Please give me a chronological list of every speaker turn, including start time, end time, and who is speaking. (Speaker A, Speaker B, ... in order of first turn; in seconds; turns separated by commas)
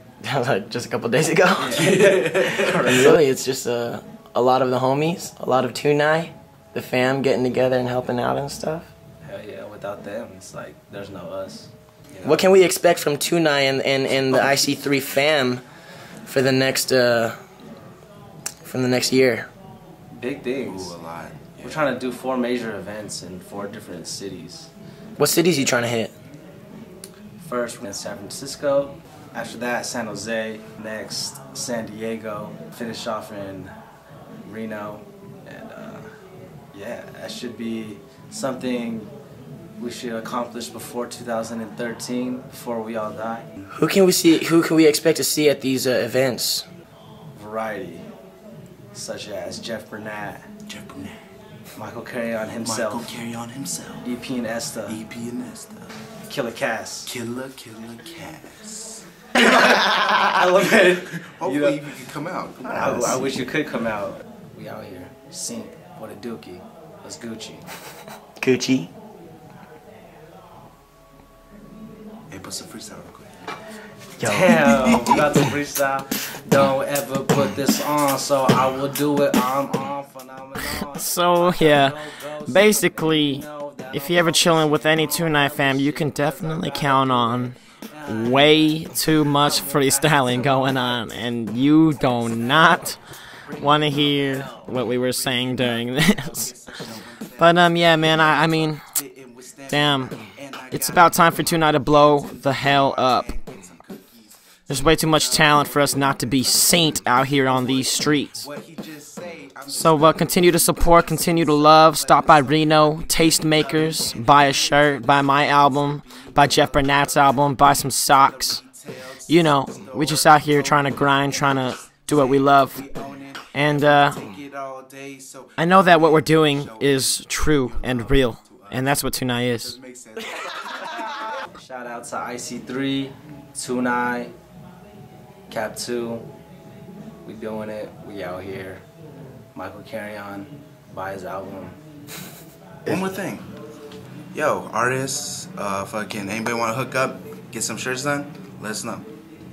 Speaker A: 0.2-8.9, Speaker B: 1.6-3.2, Speaker C: 1.7-3.1, Speaker B: 9.2-11.7, Speaker A: 12.2-15.6, Speaker C: 14.3-14.6, Speaker A: 16.3-17.4, Speaker A: 18.6-19.5, Speaker B: 20.1-20.9, Speaker C: 20.6-21.9, Speaker B: 21.6-24.7, Speaker A: 25.2-26.1, Speaker B: 27.4-33.7, Speaker B: 34.4-36.1, Speaker B: 36.7-39.1, Speaker B: 39.8-43.7, Speaker A: 43.7-46.6, Speaker B: 47.3-48.1, Speaker B: 48.9-50.5, Speaker C: 50.7-51.2, Speaker B: 51.8-53.1, Speaker C: 52.6-54.1, Speaker B: 54.0-55.0, Speaker C: 54.9-55.9, Speaker B: 56.3-57.1, Speaker C: 57.1-59.0, Speaker B: 59.3-61.8, Speaker C: 61.2-63.4, Speaker B: 62.7-67.6, Speaker A: 68.4-68.9, Speaker C: 72.3-73.3, Speaker A: 74.2-74.8, Speaker B: 74.2-95.3, Speaker C: 74.6-75.2, Speaker A: 80.9-93.0, Speaker A: 93.6-96.5, Speaker C: 95.2-130.8, Speaker A: 97.4-98.8, Speaker A: 99.7-100.1, Speaker A: 100.7-103.3, Speaker A: 104.7-108.5, Speaker A: 109.7-118.6, Speaker A: 119.3-122.8, Speaker A: 123.5-124.2, Speaker A: 125.6-129.8, Speaker B: 131.5-134.3, Speaker B: 135.5-136.2, Speaker B: 137.2-138.8, Speaker B: 139.5-141.8, Speaker C: 142.8-143.5, Speaker C: 144.3-149.0